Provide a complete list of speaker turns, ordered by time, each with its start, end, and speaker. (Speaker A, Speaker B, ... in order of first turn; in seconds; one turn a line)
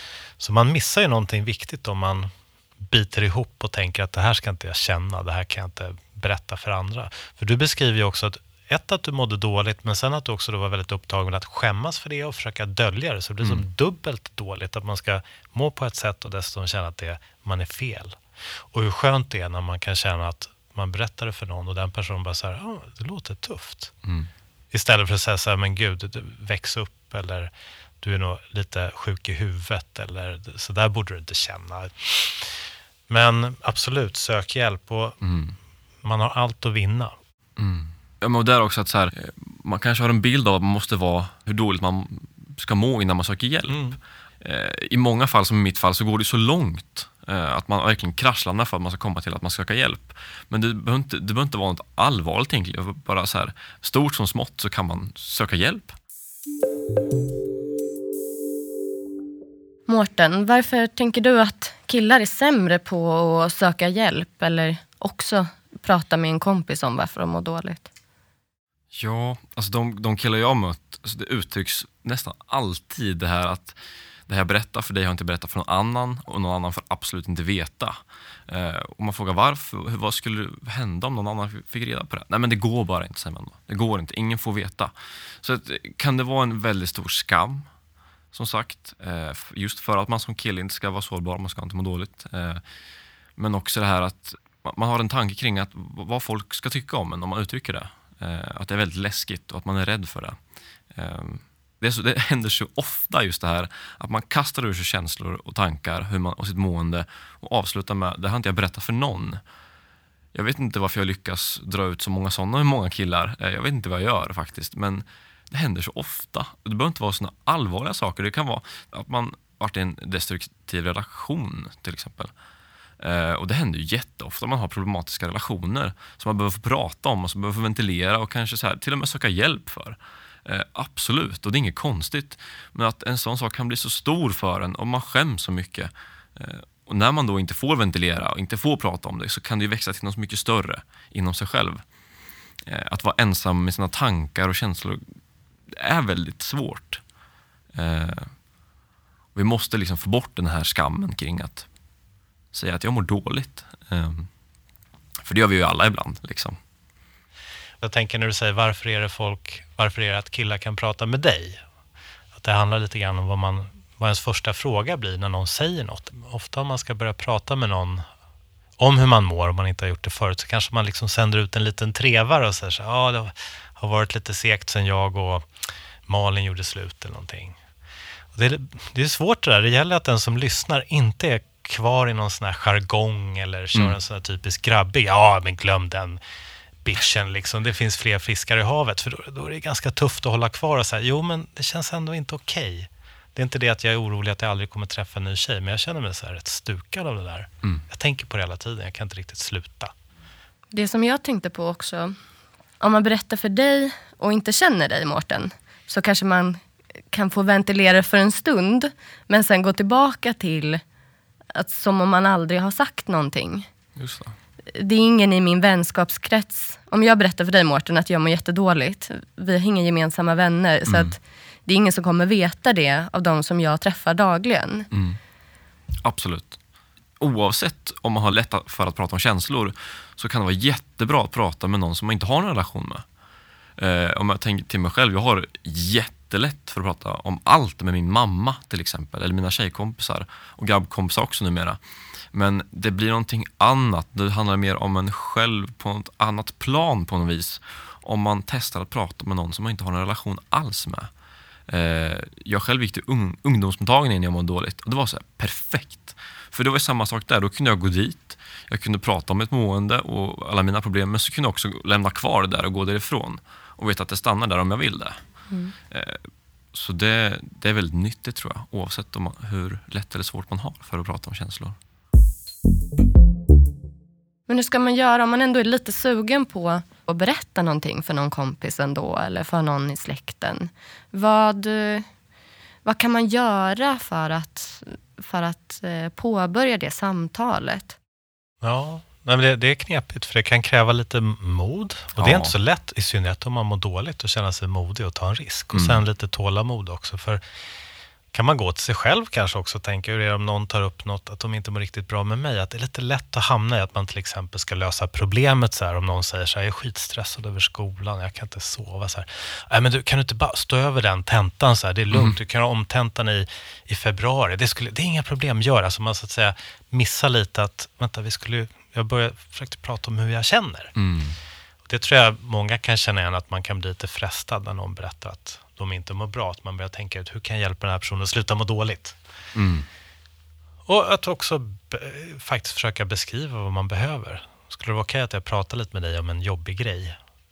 Speaker A: 0.4-23.9
Speaker A: 24.7-32.5
Speaker A: 33.1-35.2
Speaker B: 35.2-35.5
Speaker A: 36.0-37.1
Speaker B: 37.6-55.9
Speaker A: 43.7-44.0
Speaker C: 59.9-67.9
Speaker B: 68.9-87.7
Speaker B: 88.3-92.6
Speaker B: 93.4-100.4
Speaker B: 100.9-109.4
Speaker B: 110.3-122.3
Speaker B: 123.0-141.8
Speaker B: 142.7-145.0
Speaker B: 145.7-147.0
Speaker B: 147.7-148.3
Speaker B: 149.3-151.7
Speaker B: 152.5-154.3
Speaker B: 155.2-156.6
Speaker A: 157.8-161.6
Speaker A: 162.3-168.0
Speaker A: 168.8-175.5
Speaker A: 176.1-177.6
Speaker A: 178.3-186.2
Speaker A: 186.8-199.9
Speaker C: 200.7-202.2
Speaker C: 202.8-210.8
Speaker C: 211.5-213.7
Speaker B: 214.0-214.3
Speaker C: 214.7-224.9
Speaker B: 220.9-221.1
Speaker B: 224.9-225.2
Speaker B: 226.0-226.6
Speaker B: 227.2-233.0
Speaker B: 233.8-241.8
Speaker B: 242.3-251.1
Speaker B: 251.7-265.2
Speaker B: 265.9-271.8
Speaker C: 274.5-282.1
Speaker C: 282.8-287.9
Speaker A: 288.6-297.4
Speaker B: 292.2-292.5
Speaker B: 295.7-296.0
Speaker A: 298.3-320.9
Speaker B: 312.1-312.4
Speaker B: 320.9-321.4
Speaker A: 321.9-329.2
Speaker B: 329.5-329.9
Speaker A: 330.9-337.2